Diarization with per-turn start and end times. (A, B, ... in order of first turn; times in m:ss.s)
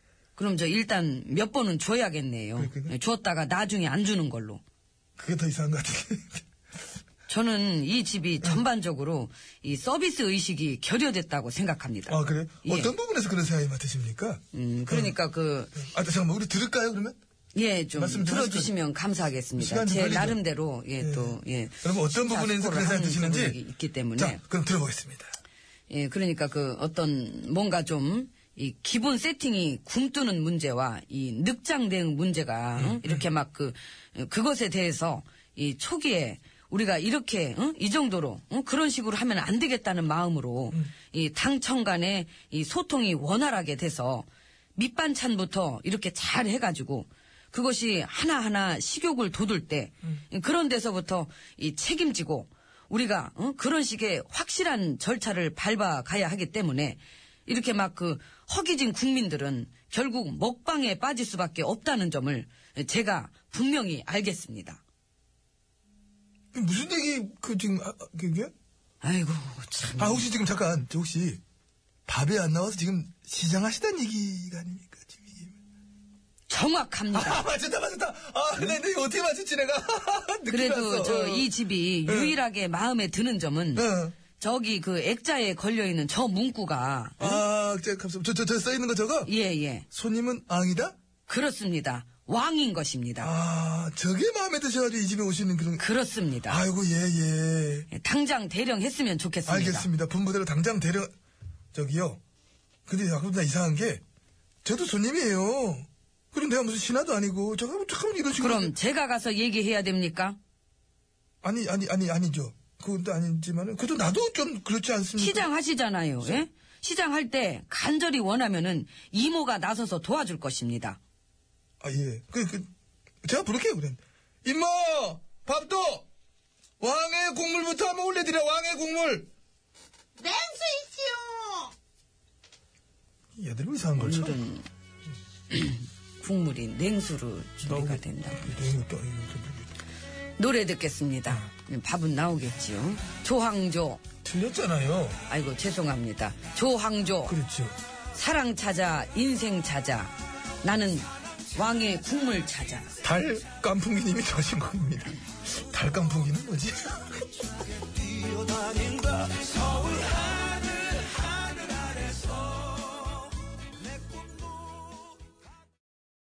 0:00.4-0:04.6 A
0:02.6-0:02.9 B
0:05.2-0:06.4 B
0:07.3-0:12.9 A
0:12.1-0:15.1 B
0:14.5-0:15.7 A
0:15.8-0:17.2 B
0:17.5-0:24.4 A
0:17.9-0:18.7 B
0:19.6-0:20.4 B
0:21.0-0:23.6 B
0:24.2-0:25.3 B
0:25.9-1:04.8 A
0:32.8-0:33.2 B
1:06.5-1:08.5 B
1:09.0-1:10.3 A
1:10.0-1:11.4 B
1:12.1-1:15.6 B
1:16.5-1:17.5 A
1:17.1-1:21.5 B
1:20.5-1:23.9 A
1:22.0-1:22.4 B
1:23.8-1:24.1 B
1:24.4-1:27.4 A
1:27.2-1:29.3 B
1:29.2-1:29.9 A
1:29.9-1:31.0 B
1:31.3-1:33.3 A
1:33.2-1:35.8 B
1:35.8-1:36.6 A
1:36.5-1:37.9 B
1:37.9-1:39.9 A
1:39.4-1:41.1 B
1:41.7-1:42.2 B
1:42.9-1:44.0 B
1:44.6-1:48.7 B
1:48.4-1:50.4 A
1:51.4-1:55.5 B
1:55.2-2:01.0 A
2:01.8-2:02.7 B
2:03.2-2:06.1 B
2:06.8-2:09.3 B
2:10.2-2:11.6 A
2:13.4-2:14.4 B
2:14.0-2:14.6 A
2:15.5-2:18.6 A
2:17.6-2:19.7 B
2:20.4-2:24.0 A
2:24.2-2:25.2 B
2:25.3-2:27.4 A
2:27.3-2:27.8 B
2:28.1-2:32.9 A
2:33.0-2:37.2 B